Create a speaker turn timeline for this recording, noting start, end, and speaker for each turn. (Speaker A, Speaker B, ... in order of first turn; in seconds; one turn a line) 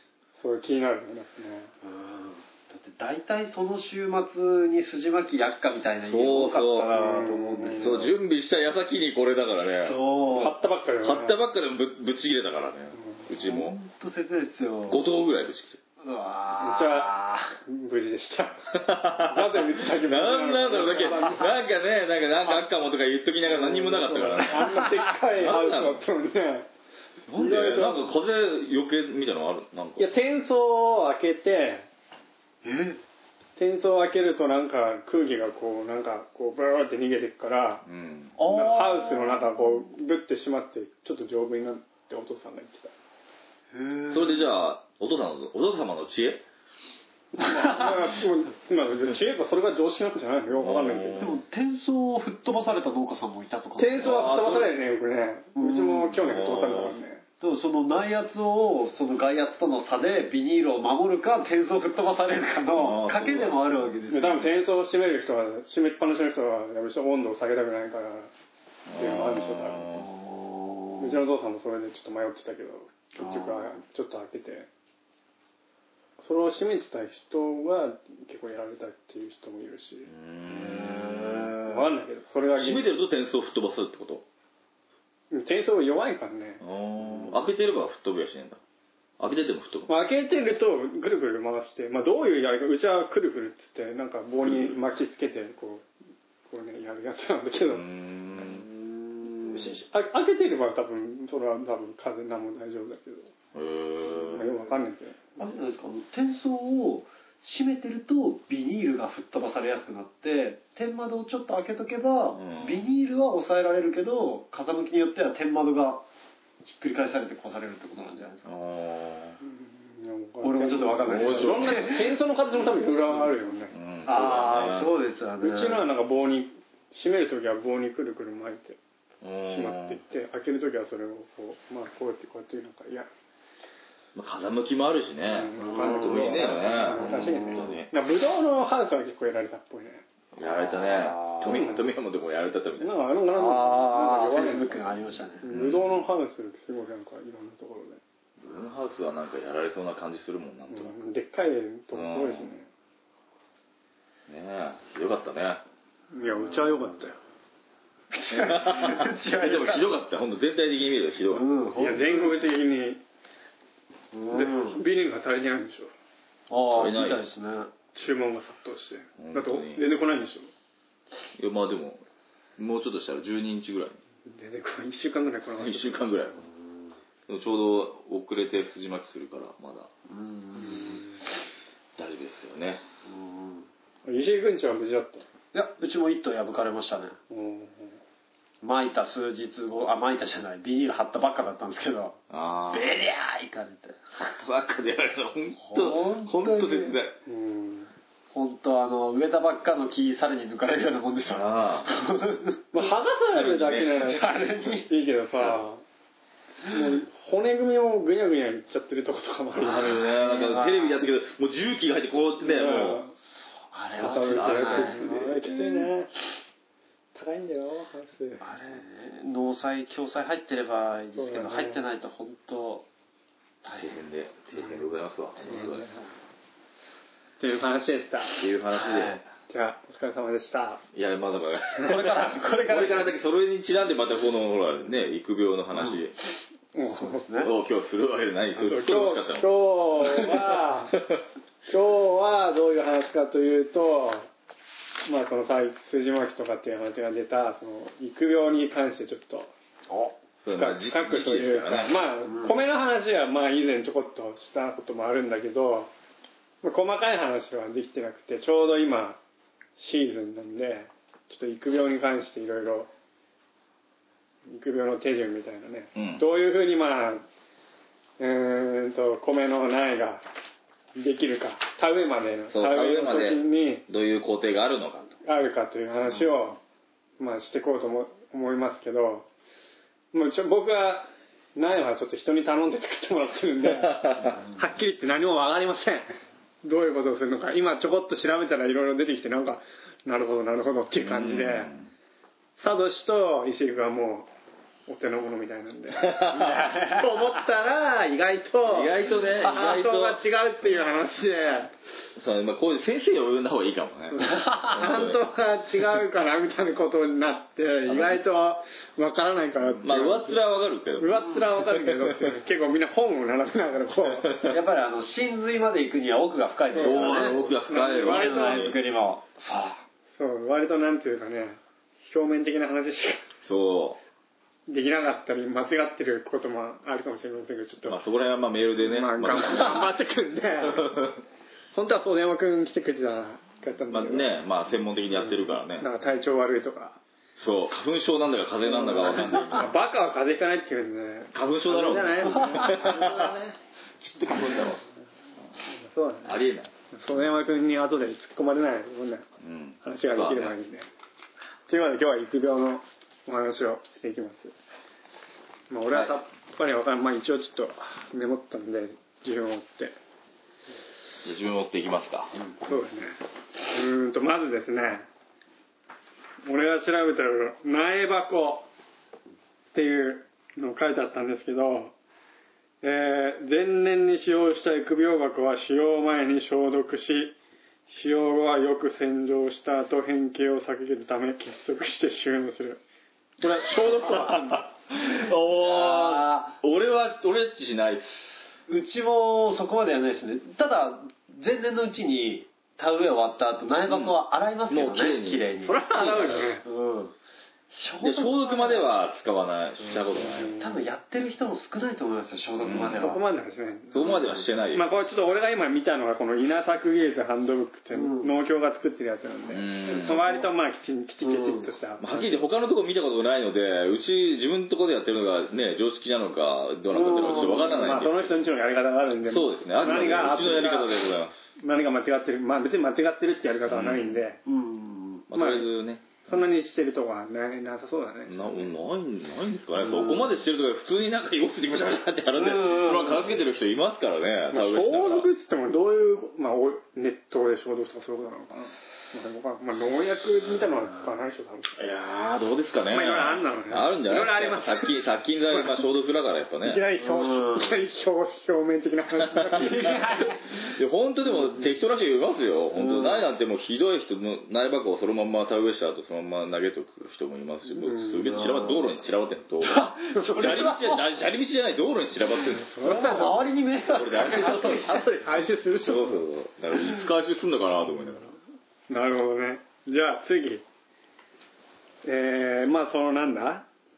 Speaker A: 0.3-1.7
Speaker B: 1.8-8.1
Speaker C: 6.0-6.9
Speaker A: 6.9-8.0
Speaker C: 7.7-10.0
Speaker B: 9.8-10.5
Speaker A: 10.3-11.4
Speaker C: 11.0-13.8
Speaker A: 12.9-13.3
Speaker B: 13.3-15.0
Speaker C: 14.9-15.8
Speaker B: 16.0-17.5
Speaker A: 16.6-18.6
Speaker C: 18.7-26.0
Speaker A: 19.3-21.5
Speaker B: 20.8-21.4
Speaker B: 23.5-25.1
Speaker A: 23.7-26.7
Speaker C: 27.3-30.1
Speaker A: 27.3-28.1
Speaker A: 30.0-31.9
Speaker B: 32.6-33.0
Speaker A: 33.6-37.8
Speaker C: 37.9-38.4
Speaker B: 38.4-39.7
Speaker A: 38.4-42.9
Speaker B: 43.7-44.5
Speaker C: 44.1-46.4
Speaker A: 47.3-51.3
Speaker B: 47.4-48.0
Speaker C: 50.5-51.4
Speaker B: 51.2-54.4
Speaker A: 53.8-57.2
Speaker C: 54.0-54.7
Speaker B: 55.5-56.2
Speaker C: 56.2-56.9
Speaker B: 57.4-64.5
Speaker C: 62.7-63.6
Speaker A: 64.1-68.3
Speaker C: 68.9-70.1
Speaker A: 68.9-69.9
Speaker B: 69.9-71.2
Speaker A: 71.0-74.7
Speaker B: 73.2-73.8
Speaker A: 76.2-80.1
Speaker C: 80.1-81.5
Speaker B: 80.5-81.8
Speaker A: 81.7-82.9
Speaker C: 82.5-84.2
Speaker A: 85.3-86.6
Speaker C: 86.6-88.6
Speaker B: 87.0-87.4
Speaker C: 89.2-89.9
Speaker A: 89.9-95.8
Speaker C: 94.4-94.7
Speaker A: 96.5-97.8
Speaker C: 97.7-98.7
Speaker B: 98.4-99.8
Speaker A: 99.5-103.3
Speaker C: 103.5-104.5
Speaker A: 104.3-105.2
Speaker B: 105.4-116.0
Speaker C: 112.3-112.8
Speaker B: 116.6-118.5
Speaker C: 118.4-119.4
Speaker A: 119.4-123.7
Speaker B: 120.4-122.1
Speaker C: 121.0-122.0
Speaker B: 122.8-123.2
Speaker C: 123.7-124.9
Speaker B: 124.0-125.9
Speaker A: 125.4-128.8
Speaker C: 129.2-130.0
Speaker A: 129.4-133.1
Speaker C: 134.1-137.9
Speaker A: 135.3-140.0
Speaker B: 135.6-137.8
Speaker C: 140.3-142.9
Speaker B: 140.4-141.8
Speaker A: 141.4-141.9
Speaker A: 142.8-144.9
Speaker B: 143.3-145.4
Speaker A: 145.4-148.0
Speaker C: 145.5-146.1
Speaker C: 148.4-151.0
Speaker A: 150.7-152.7
Speaker C: 151.9-152.5
Speaker C: 154.3-155.6
Speaker A: 156.1-157.2
Speaker B: 156.3-156.9
Speaker B: 158.1-159.9
Speaker C: 158.3-161.4
Speaker B: 161.3-162.4
Speaker A: 161.8-163.0
Speaker B: 164.1-164.8
Speaker A: 164.3-165.9
Speaker B: 166.5-167.7
Speaker C: 166.7-167.2
Speaker A: 167.9-170.5
Speaker C: 169.2-169.8
Speaker C: 171.3-172.0
Speaker C: 172.6-174.0
Speaker A: 174.2-176.2
Speaker C: 175.6-176.5
Speaker B: 176.3-176.9
Speaker C: 177.3-179.9
Speaker B: 180.1-181.1
Speaker A: 180.6-181.1
Speaker C: 182.0-182.8
Speaker B: 183.0-183.7
Speaker A: 184.1-185.2
Speaker B: 185.5-187.2
Speaker A: 187.3-188.0
Speaker B: 188.6-192.2
Speaker C: 192.3-192.9
Speaker B: 192.7-194.3
Speaker C: 194.2-197.2
Speaker B: 195.6-197.0
Speaker A: 197.2-197.9
Speaker B: 198.3-202.6
Speaker C: 201.3-201.9
Speaker A: 202.7-205.8
Speaker C: 203.3-204.2
Speaker B: 204.0-204.9
Speaker A: 206.6-210.1
Speaker C: 209.6-213.0
Speaker B: 210.1-211.0
Speaker A: 212.4-213.2
Speaker B: 213.4-215.9
Speaker A: 214.0-216.1
Speaker C: 214.0-215.1
Speaker A: 217.1-218.5
Speaker B: 218.4-222.8
Speaker A: 221.1-221.8
Speaker B: 223.6-223.9
Speaker C: 223.7-225.9
Speaker B: 224.5-224.8
Speaker B: 225.4-226.0
Speaker A: 225.5-225.9
Speaker A: 227.4-228.4
Speaker C: 228.4-229.2
Speaker B: 228.7-229.2
Speaker A: 229.5-230.8
Speaker C: 230.9-236.1
Speaker B: 231.8-233.1
Speaker B: 235.7-236.0
Speaker A: 236.7-237.2
Speaker B: 236.9-237.5
Speaker C: 237.4-240.3
Speaker A: 238.6-241.0
Speaker A: 241.7-244.3
Speaker A: 245.1-249.5
Speaker B: 249.9-250.2
Speaker C: 250.4-252.0
Speaker A: 250.4-255.9
Speaker B: 252.2-252.6
Speaker A: 256.6-259.2
Speaker A: 259.8-262.9
Speaker A: 264.5-267.2
Speaker C: 265.9-266.2
Speaker A: 268.2-270.2
Speaker A: 270.9-273.8
Speaker C: 272.5-275.1
Speaker A: 275.2-276.6
Speaker A: 277.2-279.3
Speaker A: 280.1-291.7
Speaker C: 283.6-284.4
Speaker B: 284.2-284.5
Speaker C: 291.0-291.9
Speaker A: 292.6-294.3
Speaker A: 294.9-301.7
Speaker C: 296.0-296.6
Speaker B: 296.4-297.1
Speaker C: 298.6-300.8
Speaker C: 302.1-305.2
Speaker A: 304.1-310.4
Speaker B: 304.3-304.9
Speaker C: 307.9-308.2
Speaker C: 309.8-312.3
Speaker A: 311.0-314.4
Speaker C: 314.1-314.6
Speaker B: 314.5-317.4
Speaker A: 316.7-318.8
Speaker C: 316.7-318.8
Speaker B: 318.0-319.8
Speaker A: 320.1-323.2
Speaker C: 323.4-324.0
Speaker A: 324.7-328.0
Speaker C: 327.9-329.9
Speaker A: 328.8-330.9
Speaker C: 330.6-331.2
Speaker A: 331.7-334.3
Speaker C: 333.9-335.9
Speaker A: 335.1-337.0
Speaker C: 337.4-339.7
Speaker A: 338.6-343.6
Speaker C: 341.3-343.3
Speaker B: 342.4-343.0
Speaker C: 344.0-344.8
Speaker A: 345.7-346.4
Speaker C: 346.2-346.7
Speaker A: 346.9-349.2
Speaker C: 349.4-350.5
Speaker A: 349.8-350.9
Speaker A: 351.7-354.5
Speaker A: 355.7-359.9
Speaker C: 355.9-356.2
Speaker C: 361.2-362.4
Speaker A: 362.6-365.1
Speaker A: 366.4-368.7
Speaker A: 369.7-371.9
Speaker A: 372.8-377.4
Speaker A: 377.9-382.8
Speaker A: 383.4-384.7
Speaker C: 383.7-388.3
Speaker B: 385.6-386.6
Speaker B: 388.7-397.1
Speaker C: 393.9-394.2
Speaker C: 394.7-396.5
Speaker A: 395.6-396.6
Speaker B: 397.7-398.9
Speaker C: 398.0-400.5
Speaker B: 399.8-403.2
Speaker A: 400.3-400.8
Speaker C: 402.6-403.1
Speaker A: 403.0-404.2
Speaker C: 403.9-404.8
Speaker B: 403.9-404.4
Speaker A: 404.7-412.5
Speaker B: 407.9-408.3
Speaker C: 409.5-410.3
Speaker B: 409.9-410.5
Speaker B: 411.2-411.7
Speaker C: 412.0-418.3
Speaker B: 416.9-418.1
Speaker A: 417.4-421.0
Speaker C: 419.3-421.3
Speaker A: 421.6-424.4
Speaker C: 423.7-424.2
Speaker B: 424.4-425.3
Speaker C: 425.3-426.3
Speaker A: 425.3-425.7
Speaker A: 426.2-428.7
Speaker C: 428.3-435.3
Speaker B: 429.8-430.3
Speaker B: 432.3-433.4
Speaker A: 434.5-441.8
Speaker C: 441.8-446.9
Speaker A: 442.9-444.9
Speaker A: 445.5-445.8
Speaker A: 446.6-450.3
Speaker B: 447.0-447.8
Speaker C: 449.2-463.0
Speaker B: 449.6-450.5
Speaker B: 452.7-453.3
Speaker A: 457.8-458.5
Speaker B: 458.3-458.8
Speaker B: 459.6-461.0
Speaker A: 462.5-463.4
Speaker B: 462.8-465.1
Speaker C: 463.9-468.4
Speaker A: 465.0-466.2
Speaker B: 466.8-467.1
Speaker A: 468.9-470.6
Speaker A: 472.0-473.7